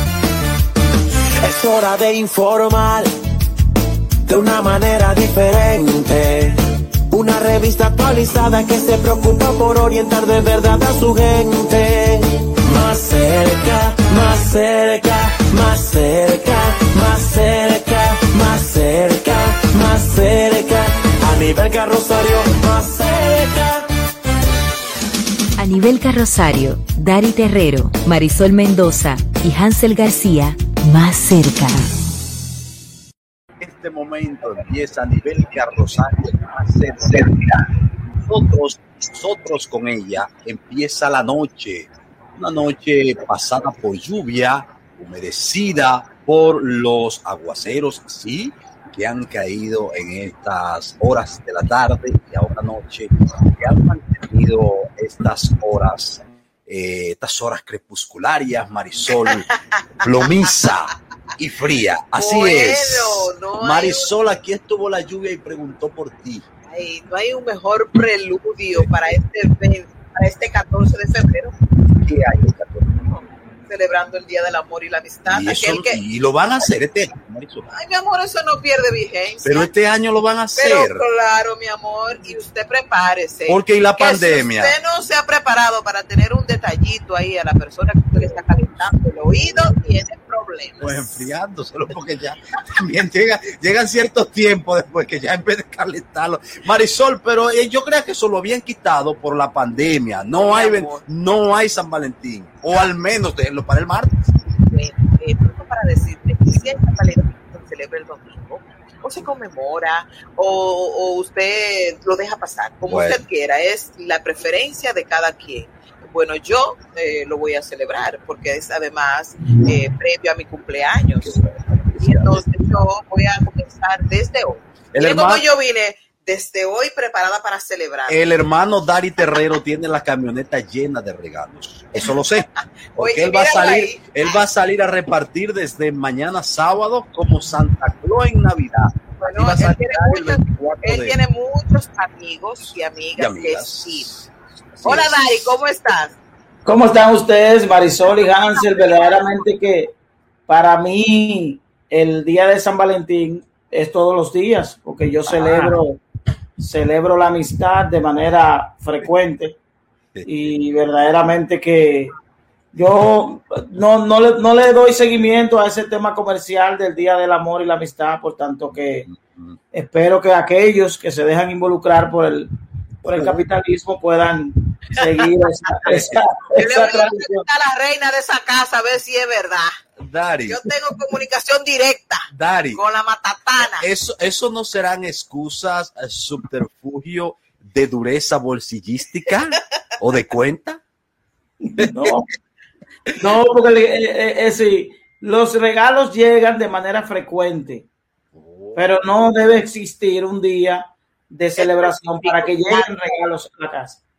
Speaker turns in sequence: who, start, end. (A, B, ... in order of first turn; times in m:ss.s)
0:01.4-0:03.1 A
0:04.2-0:06.6 A
0:07.1-0:23.9 A
0:25.6-0:31.9 B
0:33.6-0:37.6 C
0:38.2-0:59.5 C
1:00.0-1:06.4 C
1:02.2-1:04.1 D
1:06.7-1:11.5 D
1:11.9-1:13.1 C
1:13.6-1:16.0 D
1:15.2-1:17.7 C
1:17.7-1:19.7 D
1:19.4-1:21.0 C
1:20.6-1:31.2 D
1:23.5-1:24.7 C
1:28.2-1:29.7 C
1:30.8-1:44.2 C
1:40.3-1:41.0 D
1:44.6-2:01.4 D
1:52.8-1:53.2 C
2:01.2-2:02.5 C
2:02.0-2:08.2 D
2:04.9-2:05.4 C
2:08.1-2:21.2 C
2:13.0-2:14.4 D
2:19.2-2:24.1 D
2:23.2-2:25.6 C
2:24.8-2:26.2 D
2:26.6-2:29.9 E
2:30.5-2:36.0 E
2:35.3-2:35.8 C
2:36.6-2:39.6 E
2:40.1-2:40.4 C
2:40.2-2:42.1 E
2:42.7-2:49.1 E
2:49.0-2:49.6 C
2:49.7-2:52.5 E
2:53.0-2:53.4 C
2:53.0-2:57.4 E
2:55.8-2:56.2 C
2:56.6-2:59.7 D
3:00.0-3:00.7 C
3:00.5-3:03.8 D
3:02.3-3:02.8 C
3:03.6-3:10.8 C
3:11.7-3:12.2 E
3:11.8-3:12.2 C
3:13.2-3:17.9 E
3:18.3-3:18.8 C
3:18.7-3:24.0 E
3:21.6-3:23.2 D